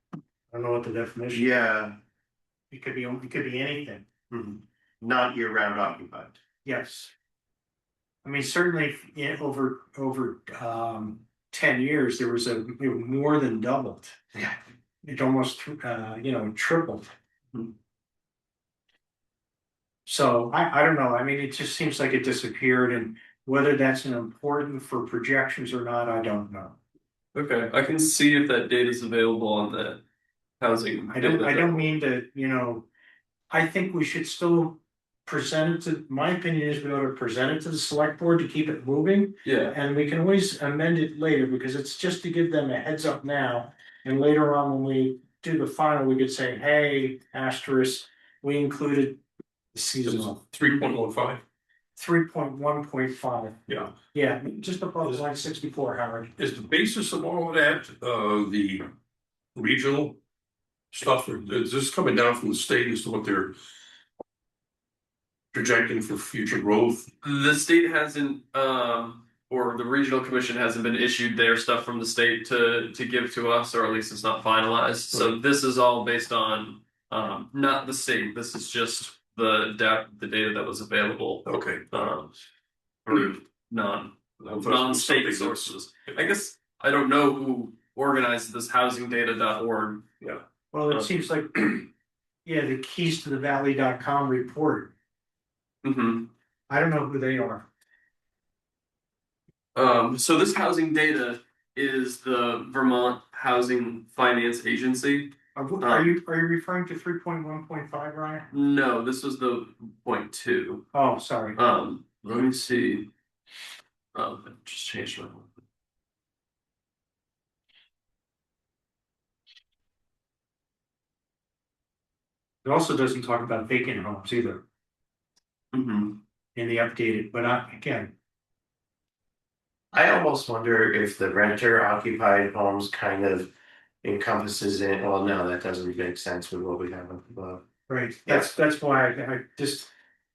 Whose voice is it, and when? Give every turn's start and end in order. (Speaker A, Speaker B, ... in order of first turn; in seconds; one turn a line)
Speaker A: 0.5-1.8
Speaker B: 1.3-2.0
Speaker A: 2.7-4.1
Speaker B: 4.3-6.4
Speaker A: 6.7-7.1
Speaker A: 8.2-14.5
Speaker A: 15.0-17.1
Speaker A: 20.1-26.8
Speaker C: 27.3-30.0
Speaker C: 30.6-31.9
Speaker A: 31.1-32.9
Speaker A: 33.5-49.2
Speaker C: 39.4-39.8
Speaker A: 49.7-50.4
Speaker D: 50.0-51.4
Speaker A: 52.0-56.3
Speaker D: 53.7-54.0
Speaker D: 56.4-58.9
Speaker D: 59.5-60.2
Speaker D: 60.9-63.6
Speaker D: 65.5-67.1
Speaker C: 67.2-82.3
Speaker D: 81.5-81.9
Speaker C: 83.1-90.1
Speaker D: 83.1-83.3
Speaker D: 84.4-86.2
Speaker A: 90.7-91.9
Speaker A: 92.5-94.9
Speaker C: 95.8-96.3
Speaker A: 96.7-97.7
Speaker C: 99.8-106.2
Speaker A: 105.5-108.5
Speaker C: 108.5-110.9
Speaker A: 110.9-111.6
Speaker C: 111.6-113.1
Speaker C: 114.1-115.5
Speaker A: 122.6-124.6
Speaker C: 125.7-126.2
Speaker A: 126.6-128.1
Speaker B: 129.9-133.5
Speaker B: 134.0-137.7
Speaker A: 137.9-139.9
Speaker B: 138.3-138.6